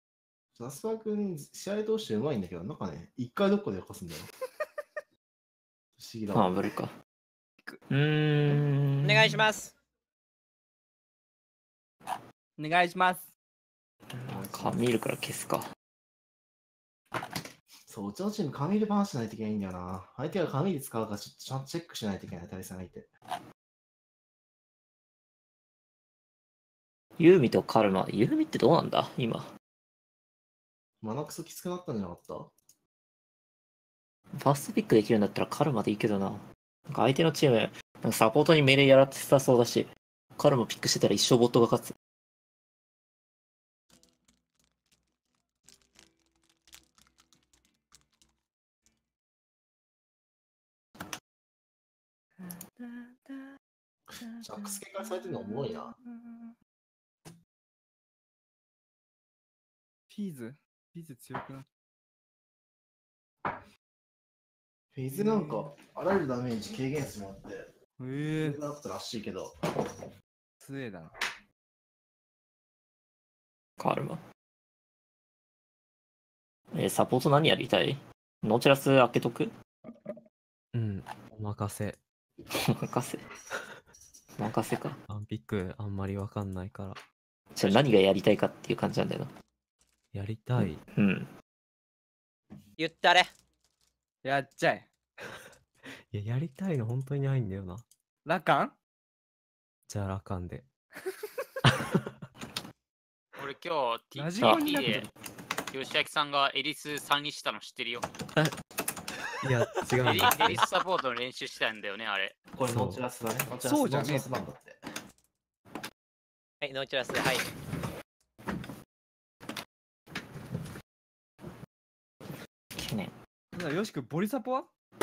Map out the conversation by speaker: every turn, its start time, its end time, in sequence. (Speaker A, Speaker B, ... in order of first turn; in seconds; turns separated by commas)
Speaker A: 0.6-4.3, Speaker A: 6.0-6.7, Speaker B: 6.3-6.9, Speaker B: 7.9-9.5, Speaker C: 9.0-9.7, Speaker D: 12.6-13.3, Speaker B: 14.1-15.7, Speaker A: 14.3-14.8, Speaker A: 17.9-23.1, Speaker B: 27.2-29.5, Speaker A: 31.0-32.5, Speaker B: 34.4-41.9, Speaker D: 52.4-53.6, Speaker A: 54.1-56.0, Speaker D: 54.2-56.5, Speaker D: 60.1-61.7, Speaker A: 64.9-67.7, Speaker D: 65.1-65.8, Speaker D: 68.0-68.6, Speaker A: 68.4-69.9, Speaker D: 70.6-71.2, Speaker B: 73.8-74.2, Speaker B: 76.7-79.5, Speaker E: 80.7-82.0, Speaker B: 82.5-83.2, Speaker B: 84.4-85.0, Speaker E: 85.1-87.0, Speaker B: 87.5-89.3, Speaker E: 90.1-90.8, Speaker B: 90.6-91.3, Speaker C: 92.8-93.3, Speaker D: 94.2-94.9, Speaker E: 96.1-97.8, Speaker D: 98.2-98.8, Speaker E: 99.9-100.7, Speaker D: 101.1-101.5, Speaker E: 101.7-102.1, Speaker F: 103.4-105.1, Speaker D: 104.2-105.1, Speaker B: 104.4-104.7, Speaker F: 105.7-108.1, Speaker E: 109.4-110.7, Speaker F: 110.0-112.4, Speaker C: 110.1-110.5, Speaker A: 112.5-114.8, Speaker E: 112.6-113.0, Speaker D: 113.6-114.4, Speaker C: 116.6-117.5, Speaker B: 122.8-123.1, Speaker D: 123.5-124.7